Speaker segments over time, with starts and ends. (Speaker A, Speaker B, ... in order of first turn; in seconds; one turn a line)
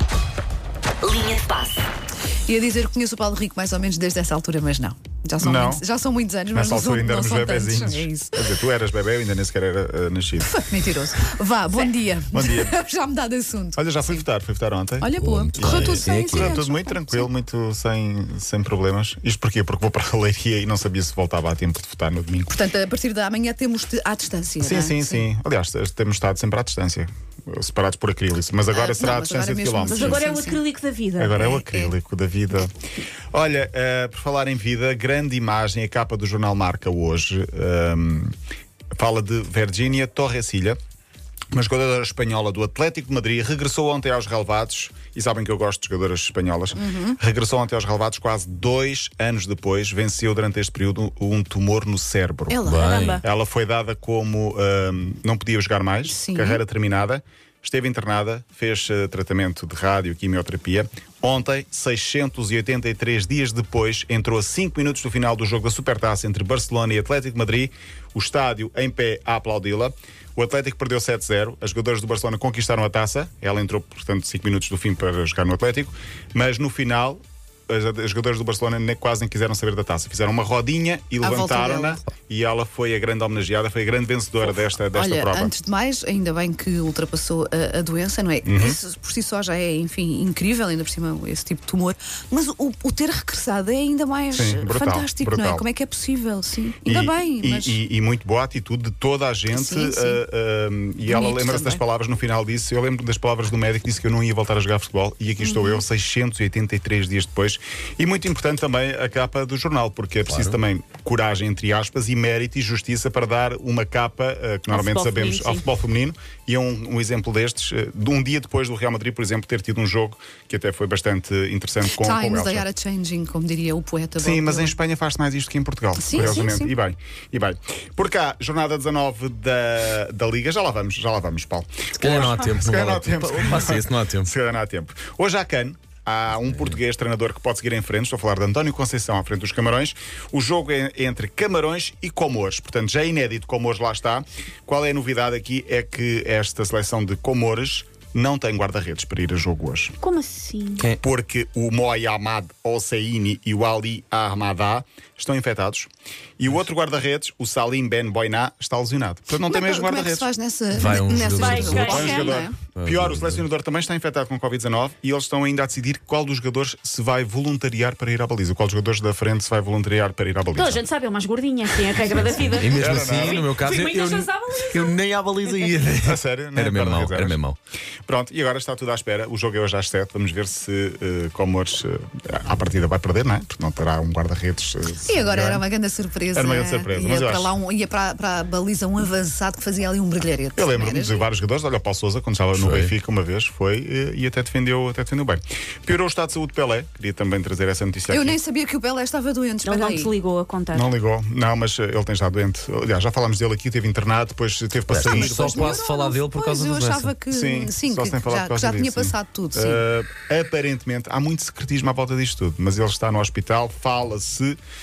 Speaker A: 1.1-1.7
Speaker A: 2.5-8.4
Speaker B: 5.4-5.8
Speaker B: 6.5-10.6
Speaker A: 10.4-14.2
Speaker B: 12.3-12.7
Speaker B: 13.8-22.6
Speaker A: 15.0-17.3
Speaker C: 15.2-16.6
Speaker A: 22.5-25.3
Speaker B: 24.6-30.2
Speaker A: 28.7-30.6
Speaker D: 29.9-31.4
Speaker B: 31.2-32.8
Speaker A: 31.4-31.9
Speaker B: 33.3-38.4
Speaker B: 39.0-40.8
Speaker B: 41.5-52.6
Speaker A: 46.8-47.2
Speaker A: 52.5-52.9
Speaker C: 52.6-53.2
Speaker D: 52.7-53.2
Speaker B: 53.2-85.5
Speaker A: 56.0-56.6
Speaker A: 81.2-82.0
Speaker A: 84.4-97.8
Speaker B: 88.4-88.8
Speaker B: 94.3-95.7
Speaker B: 96.8-122.7
Speaker A: 99.5-100.2
Speaker A: 101.0-101.8
Speaker A: 105.4-105.8
Speaker C: 110.3-110.6
Speaker D: 114.7-115.7
Speaker A: 121.9-124.8
Speaker B: 124.2-150.0
Speaker A: 126.0-126.7
Speaker C: 132.0-134.3
Speaker C: 136.5-136.8
Speaker D: 150.0-150.9
Speaker B: 151.0-160.3
Speaker A: 159.3-162.6
Speaker C: 160.7-162.1
Speaker D: 161.3-162.4
Speaker B: 161.8-170.8
Speaker C: 162.6-163.4
Speaker D: 170.6-175.0
Speaker C: 172.1-177.6
Speaker B: 172.8-173.5
Speaker B: 176.0-177.4
Speaker B: 178.1-185.6
Speaker A: 185.1-191.3
Speaker B: 186.3-187.5
Speaker B: 190.6-198.4
Speaker C: 192.5-192.9
Speaker A: 198.1-200.1
Speaker D: 199.6-200.9
Speaker B: 200.7-205.8
Speaker C: 204.9-207.1
Speaker A: 204.9-209.8
Speaker B: 207.3-214.6